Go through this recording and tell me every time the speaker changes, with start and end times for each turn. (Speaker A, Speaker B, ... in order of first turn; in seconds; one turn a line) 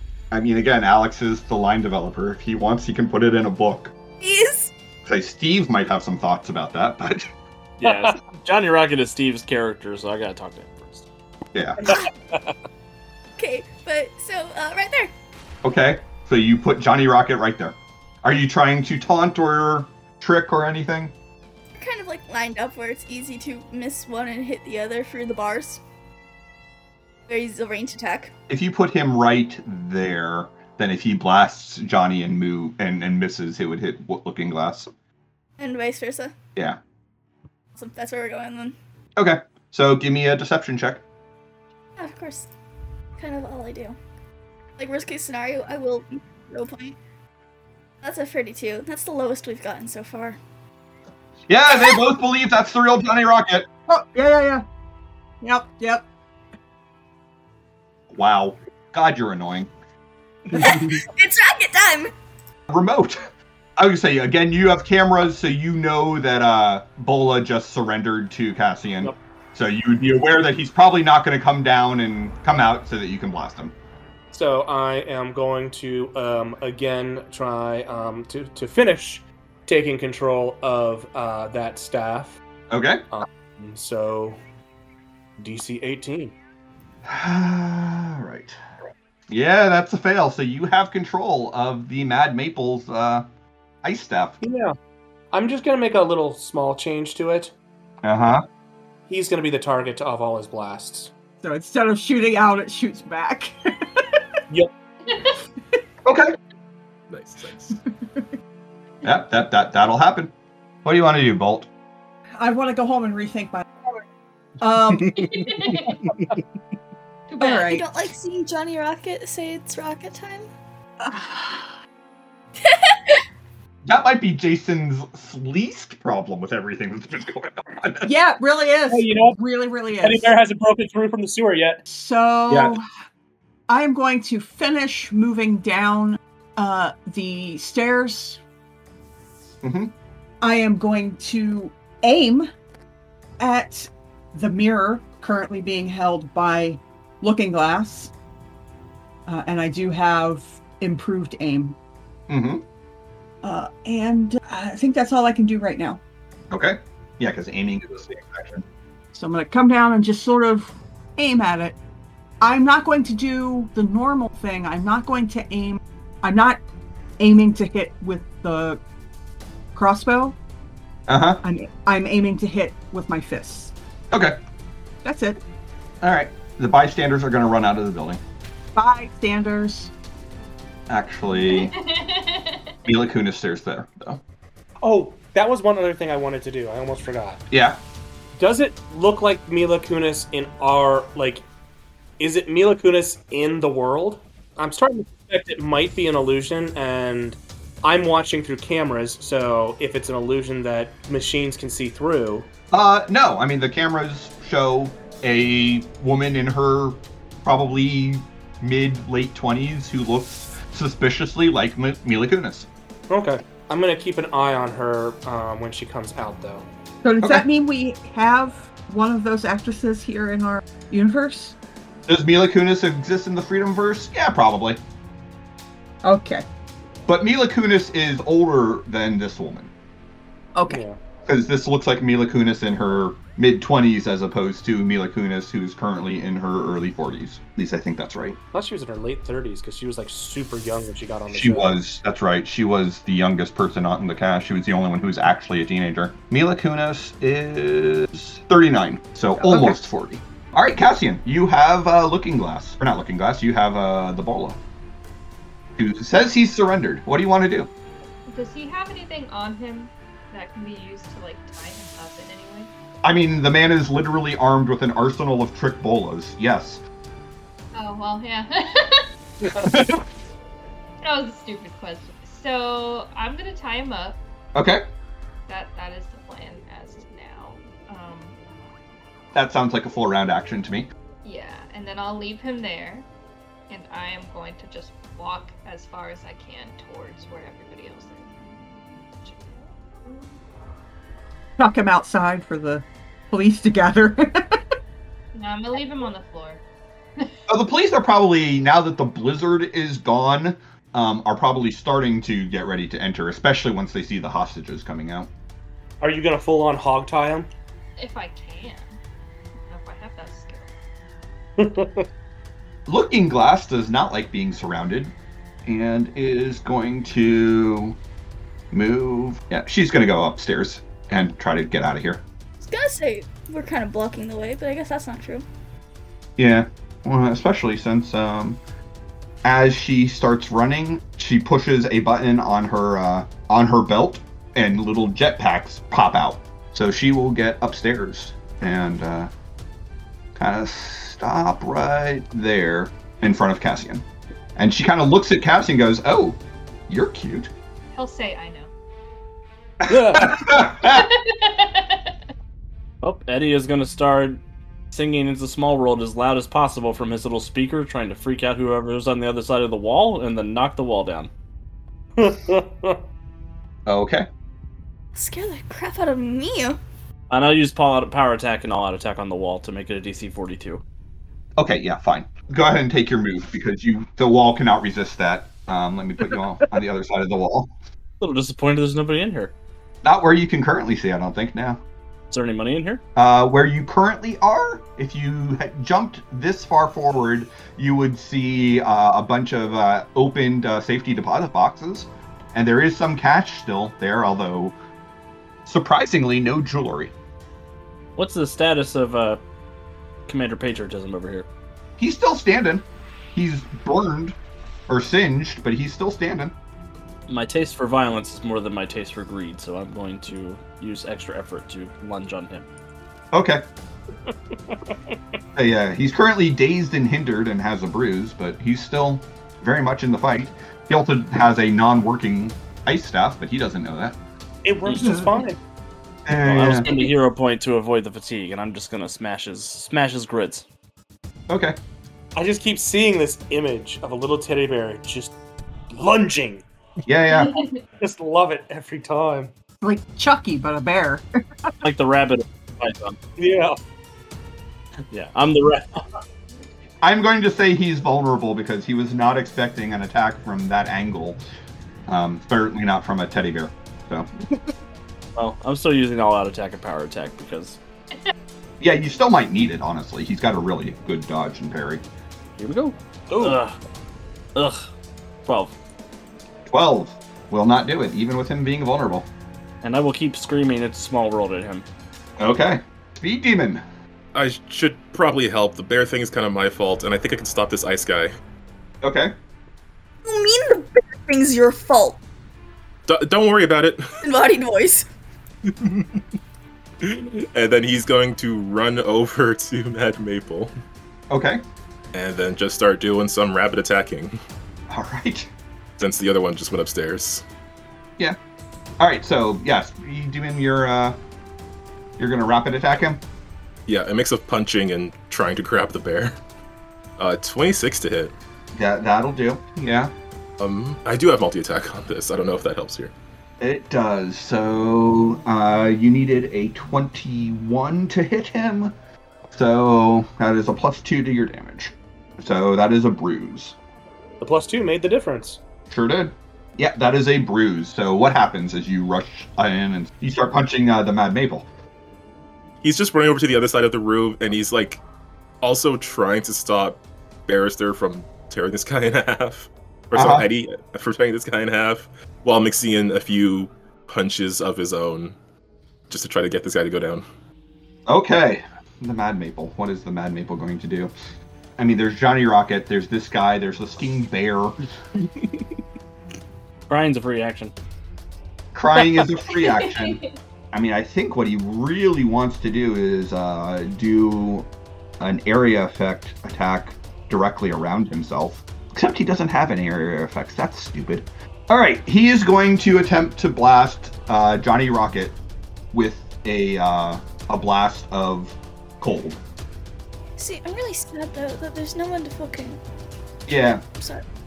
Speaker A: 0.3-3.9
Speaker B: 4.2-4.7
Speaker A: 5.1-7.3
Speaker C: 7.8-11.1
Speaker D: 7.8-8.1
Speaker A: 11.5-11.8
Speaker B: 13.4-15.1
Speaker A: 15.6-21.1
Speaker B: 21.8-25.8
Speaker B: 27.3-28.3
Speaker A: 28.5-34.9
Speaker B: 35.6-36.4
Speaker B: 37.8-38.8
Speaker A: 39.2-41.0
Speaker B: 42.0-42.5
Speaker B: 43.2-44.0
Speaker B: 44.8-47.0
Speaker B: 48.0-50.4
Speaker A: 51.5-53.7
Speaker B: 51.7-52.0
Speaker E: 53.9-54.6
Speaker E: 55.4-56.0
Speaker A: 58.1-59.7
Speaker B: 60.5-62.1
Speaker A: 62.7-63.2
Speaker A: 63.8-73.7
Speaker D: 74.3-82.4
Speaker A: 82.7-83.0
Speaker D: 83.1-84.4
Speaker D: 85.4-86.3
Speaker A: 87.1-88.6
Speaker A: 89.3-93.3
Speaker A: 93.8-94.4
Speaker D: 94.4-94.8
Speaker D: 95.3-97.5
Speaker A: 98.0-98.5
Speaker D: 99.1-101.1
Speaker E: 101.4-104.2
Speaker F: 105.1-105.3
Speaker A: 106.0-106.4
Speaker G: 107.1-107.8
Speaker A: 109.0-110.3
Speaker A: 110.8-111.7
Speaker E: 112.4-114.0
Speaker E: 114.6-115.3
Speaker G: 115.0-116.3
Speaker F: 115.2-116.0
Speaker F: 117.3-117.8
Speaker E: 117.4-117.9
Speaker B: 117.4-120.5
Speaker E: 121.0-121.8
Speaker B: 122.6-123.2
Speaker A: 123.8-128.1
Speaker E: 128.0-130.3
Speaker D: 128.9-129.4
Speaker D: 130.0-131.8
Speaker E: 131.9-132.8
Speaker E: 133.7-138.4
Speaker A: 139.6-139.9
Speaker E: 140.4-142.5
Speaker E: 143.4-148.1
Speaker E: 149.3-151.8
Speaker A: 152.3-152.6
Speaker E: 153.4-156.0
Speaker A: 156.5-158.6
Speaker E: 159.1-161.8
Speaker E: 162.4-166.6
Speaker E: 167.2-168.8
Speaker E: 169.7-170.4
Speaker A: 171.1-171.4
Speaker E: 171.4-173.7
Speaker A: 174.1-174.4
Speaker E: 175.0-175.4
Speaker A: 176.0-178.2
Speaker E: 178.8-179.9
Speaker A: 180.9-181.8
Speaker F: 181.4-182.8
Speaker A: 182.9-184.2
Speaker D: 184.8-187.4
Speaker A: 187.5-187.8
Speaker D: 188.4-191.4
Speaker D: 192.2-202.5
Speaker A: 202.7-212.7
Speaker D: 213.1-216.7
Speaker E: 217.0-221.6
Speaker A: 222.1-224.8
Speaker E: 226.0-226.5
Speaker A: 227.1-229.7
Speaker E: 230.6-230.8
Speaker D: 230.7-231.0
Speaker A: 231.3-238.4
Speaker D: 238.5-241.8
Speaker A: 241.3-254.6
Speaker E: 249.4-249.8
Speaker A: 255.8-257.7
Speaker F: 258.3-262.7
Speaker A: 263.0-266.8
Speaker F: 267.7-269.1
Speaker A: 269.6-270.0
Speaker F: 271.0-274.2
Speaker A: 274.6-274.8
Speaker F: 275.5-278.4
Speaker A: 279.3-280.9
Speaker F: 281.2-283.1
Speaker F: 283.7-288.5
Speaker F: 289.2-290.3
Speaker E: 291.6-294.6
Speaker F: 295.3-296.6
Speaker A: 297.5-305.3
Speaker D: 306.0-307.5
Speaker F: 308.0-309.0
Speaker F: 309.7-310.7
Speaker D: 311.6-312.1
Speaker A: 312.9-315.1
Speaker A: 315.7-318.0
Speaker A: 318.7-322.2
Speaker B: 322.6-325.5
Speaker A: 326.4-328.6
Speaker A: 329.4-339.3
Speaker A: 340.4-344.1
Speaker A: 344.6-347.5
Speaker F: 347.9-348.7
Speaker A: 349.8-351.1
Speaker C: 349.9-350.3
Speaker F: 350.8-352.1
Speaker C: 353.0-361.3
Speaker D: 362.2-363.0
Speaker A: 363.9-364.3
Speaker B: 365.1-366.8
Speaker C: 367.3-370.8
Speaker A: 371.6-377.7
Speaker C: 378.2-379.5
Speaker A: 380.0-381.8
Speaker C: 382.3-383.0
Speaker A: 383.1-394.8
Speaker A: 395.7-397.1
Speaker C: 398.2-399.4
Speaker C: 400.3-401.5
Speaker A: 402.0-404.4
Speaker A: 404.9-406.5
Speaker C: 407.3-412.7
Speaker A: 413.3-413.6
Speaker D: 414.3-415.2
Speaker A: 415.6-424.2
Speaker D: 424.6-425.6
Speaker A: 426.3-426.9
Speaker C: 426.4-430.6
Speaker A: 431.5-431.8
Speaker D: 432.4-435.4
Speaker D: 435.9-436.6
Speaker A: 437.1-437.6
Speaker D: 438.0-439.5
Speaker E: 439.8-441.7
Speaker C: 441.8-443.2
Speaker D: 443.4-443.8
Speaker C: 445.1-446.0
Speaker A: 447.0-451.4
Speaker A: 452.1-454.3
Speaker C: 455.4-457.8
Speaker A: 458.8-462.0
Speaker C: 462.6-463.8
Speaker D: 463.3-463.6
Speaker C: 464.6-464.9
Speaker C: 465.5-465.8
Speaker A: 466.7-469.3
Speaker C: 469.8-471.9
Speaker A: 472.4-473.8
Speaker G: 474.3-478.3
Speaker A: 479.0-479.3
Speaker B: 480.2-482.2
Speaker G: 483.1-484.0
Speaker B: 484.2-485.1
Speaker G: 485.7-486.2
Speaker G: 487.0-490.7
Speaker A: 491.3-491.6
Speaker G: 492.1-494.4
Speaker A: 494.9-495.5
Speaker G: 496.0-497.4
Speaker A: 499.0-501.2
Speaker A: 502.2-503.2
Speaker G: 503.9-506.4
Speaker G: 507.2-508.3
Speaker A: 508.8-510.1
Speaker G: 510.6-513.1
Speaker A: 513.6-518.9
Speaker A: 519.5-523.8
Speaker D: 524.4-525.6
Speaker A: 525.9-531.7
Speaker G: 532.8-535.0
Speaker G: 535.6-545.4
Speaker A: 540.1-540.5
Speaker G: 546.1-547.2
Speaker A: 548.1-551.1
Speaker A: 551.8-554.8
Speaker C: 556.9-557.7
Speaker A: 558.7-564.7
Speaker A: 565.2-575.4
Speaker A: 575.9-579.4
Speaker B: 580.4-582.8
Speaker A: 583.5-583.8
Speaker B: 583.9-584.2